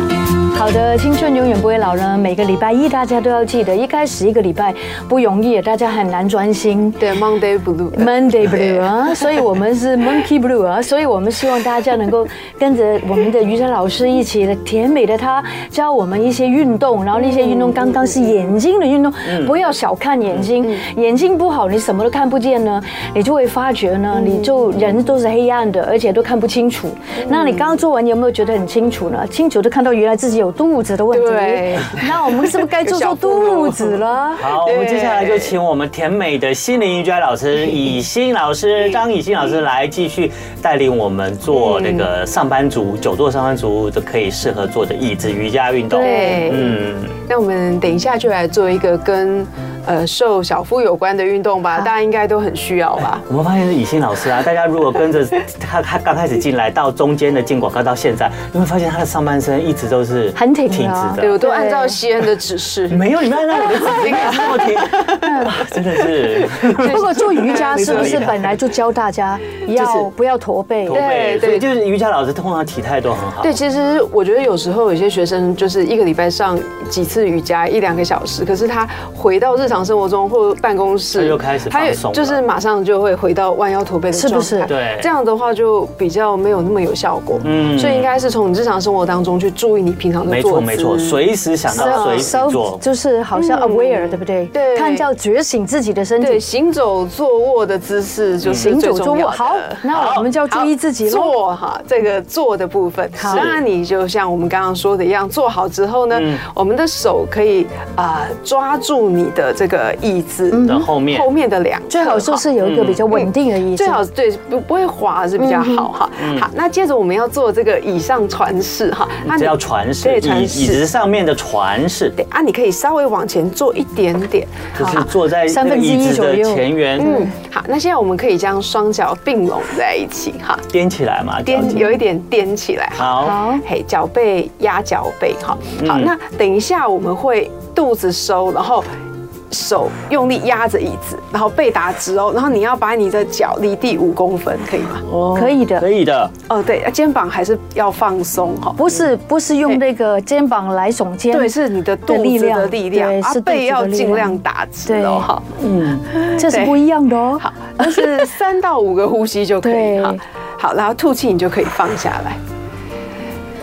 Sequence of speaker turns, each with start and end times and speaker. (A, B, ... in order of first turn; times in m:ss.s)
0:00.5-0:07.0 A
0:07.0-0:09.3 B
0:07.9-0:34.5 A
0:17.2-0:18.5 B
0:19.3-0:19.6 C
0:24.1-0:25.0 B
0:27.2-0:27.8 B
0:31.1-0:35.6 B
0:34.4-0:47.2 C
0:41.5-0:42.1 B
0:45.9-0:46.6 A
0:46.0-0:53.2 B
0:53.2-1:01.4 C
1:00.4-1:02.0 A
1:01.2-1:08.4 B
1:02.9-1:08.5 C
1:05.2-1:05.6 A
1:06.8-1:11.0 A
1:09.7-1:10.1 C
1:10.9-1:13.6 C
1:10.9-1:11.7 B
1:13.4-1:32.3 B
1:21.1-1:22.4 C
1:24.1-1:24.7 A
1:24.7-1:25.1 C
1:27.4-1:28.1 C
1:30.3-1:32.8 C
1:31.7-1:36.4 A
1:33.4-1:35.1 B
1:36.2-1:52.5 B
1:38.4-1:38.7 C
1:38.6-1:41.3 A
1:39.9-1:40.3 C
1:43.2-1:43.5 A
1:43.2-1:43.6 C
1:46.1-1:46.4 C
1:50.5-1:50.9 A
1:50.6-1:51.3 C
1:51.9-1:54.0 A
1:52.6-1:53.1 C
1:53.1-2:00.9 B
1:55.4-1:55.9 A
1:56.2-1:56.5 C
1:59.2-2:02.2 C
2:02.2-2:05.1 B
2:04.8-2:07.1 C
2:04.8-2:07.3 A
2:07.0-2:10.7 B
2:10.7-2:11.9 C
2:11.4-2:18.9 B
2:11.6-2:11.9 A
2:13.0-2:13.4 C
2:13.2-2:13.6 A
2:15.8-2:16.1 C
2:19.5-2:25.0 B
2:25.0-2:26.3 C
2:25.3-2:25.9 A
2:26.5-2:28.8 B
2:28.8-2:31.5 A
2:31.3-2:35.5 B
2:32.1-2:35.3 A
2:35.6-2:36.1 C
2:36.1-2:36.8 B
2:36.4-2:38.3 A
2:37.4-2:42.4 B
2:39.6-2:40.2 A